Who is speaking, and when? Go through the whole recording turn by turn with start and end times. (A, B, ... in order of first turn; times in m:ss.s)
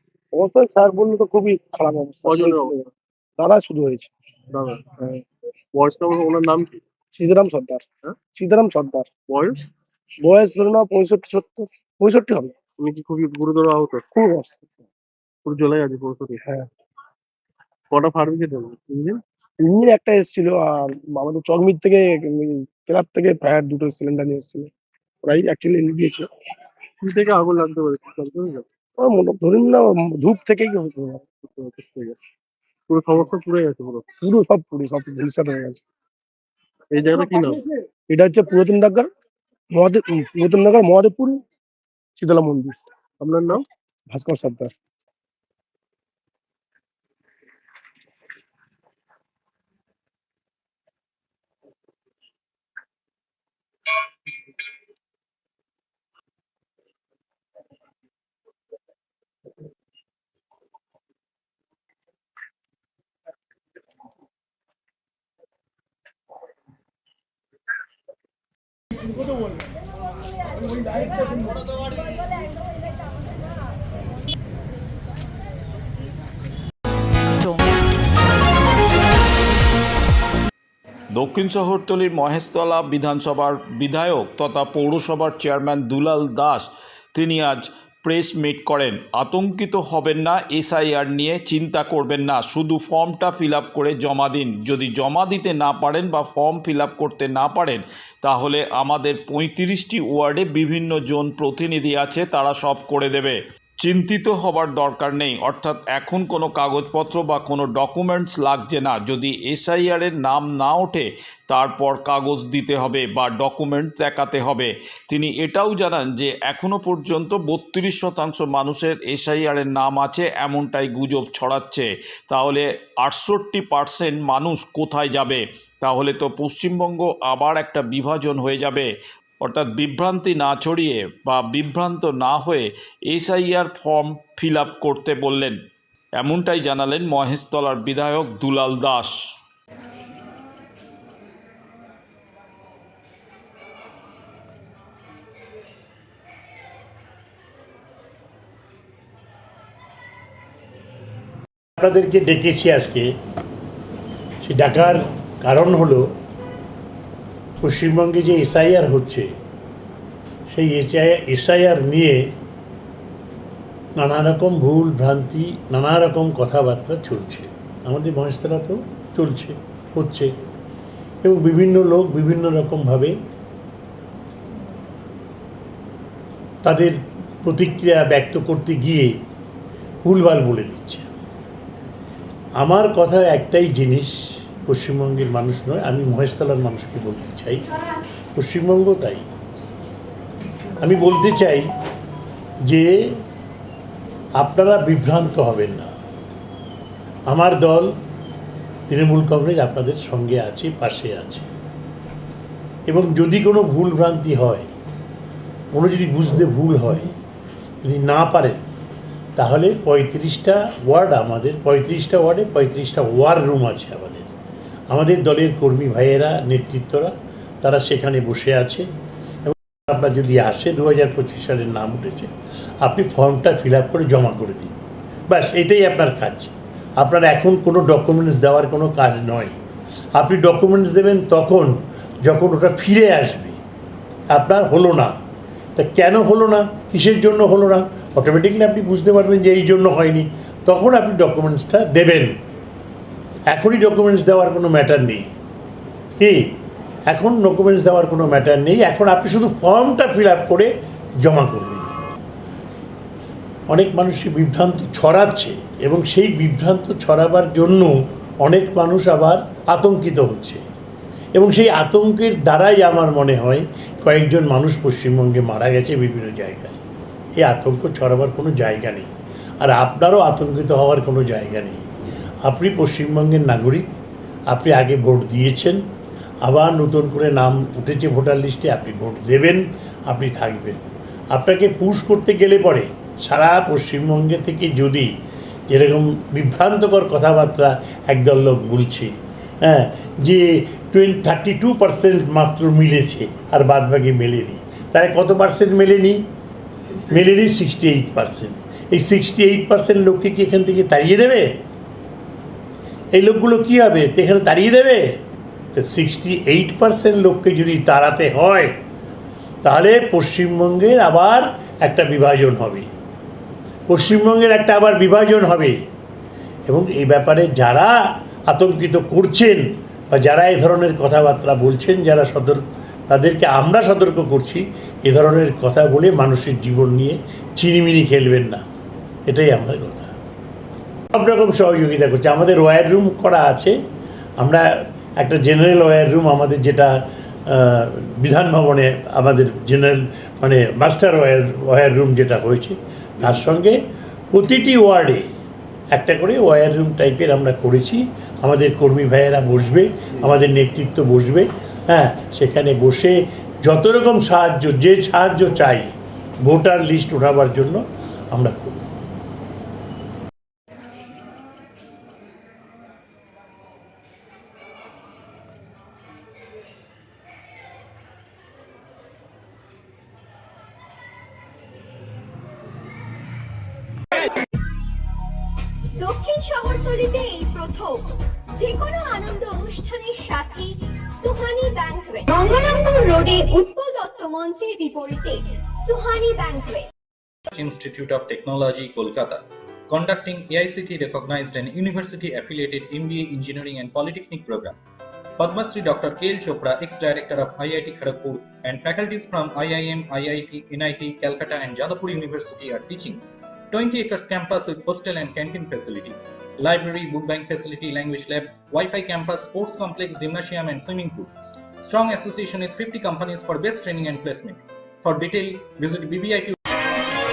0:00.3-0:02.8 A
0:02.2-0:02.9 B
0:03.4-0:04.1 A
0:04.5-0:04.8 B
0:05.7-0:06.8 B
0:07.2-0:09.1 A
0:09.3-0:09.6 B
0:10.2-0:12.5 A
0:12.8-0:14.0 B
0:14.1-0:14.8 A
0:15.4-0:16.4 B
0:17.9-0:18.8 B
0:19.1-0:24.7 A
0:25.2-0:26.3 A
0:27.0-0:28.6 B
0:29.0-0:31.2 A
0:31.4-0:32.2 B
0:32.9-0:34.0 B
0:34.2-0:35.8 A
0:36.9-0:37.6 B
0:37.0-0:39.1 A
0:39.8-0:41.4 A
0:42.2-0:42.8 A
0:43.2-0:43.6 B
0:44.1-0:44.7 A
1:21.2-2:08.9 C
2:09.4-2:15.6 C
2:16.2-2:19.2 C
2:31.8-2:33.2 D
2:34.4-2:36.1 D
2:37.6-2:39.3 D
2:40.5-2:42.4 D
2:44.0-2:50.3 D
2:51.2-2:53.2 D
2:56.6-2:59.2 D
3:00.0-3:01.1 D
3:02.6-3:04.1 D
3:04.7-3:07.7 D
3:08.4-3:09.2 D
3:10.8-3:11.7 D
3:12.7-3:13.2 D
3:14.4-3:15.9 D
3:17.3-3:17.9 D
3:18.9-3:21.5 D
3:22.9-3:24.7 D
3:25.7-3:27.1 D
3:27.8-3:28.6 D
3:29.4-3:34.3 D
3:34.9-3:38.9 D
3:39.4-3:49.6 D
3:50.2-3:53.6 D
3:54.3-3:55.2 D
3:55.8-4:02.3 D
4:03.5-4:05.3 D
4:06.2-4:06.6 D
4:07.1-4:10.7 D
4:11.2-4:11.9 D
4:13.7-4:20.6 D
4:21.3-4:26.8 D
4:27.4-4:29.1 D
4:29.6-4:31.9 D
4:32.4-4:33.9 D
4:34.5-4:35.9 D
4:36.4-4:45.2 D
4:45.7-4:56.3 D
4:57.1-5:01.6 D
5:03.1-5:05.2 D
5:05.7-5:08.8 D
5:09.6-5:12.9 D
5:13.9-5:15.8 D
5:16.7-5:18.0 D
5:18.5-5:28.6 D
5:29.3-5:30.1 D
5:31.1-5:33.8 D
5:35.2-5:36.9 D
5:37.5-5:43.8 D
5:44.3-5:45.3 D
5:45.9-5:58.9 D
6:16.0-6:26.9 E
6:27.5-6:34.8 F
6:35.4-6:51.3 F
6:51.8-6:56.6 F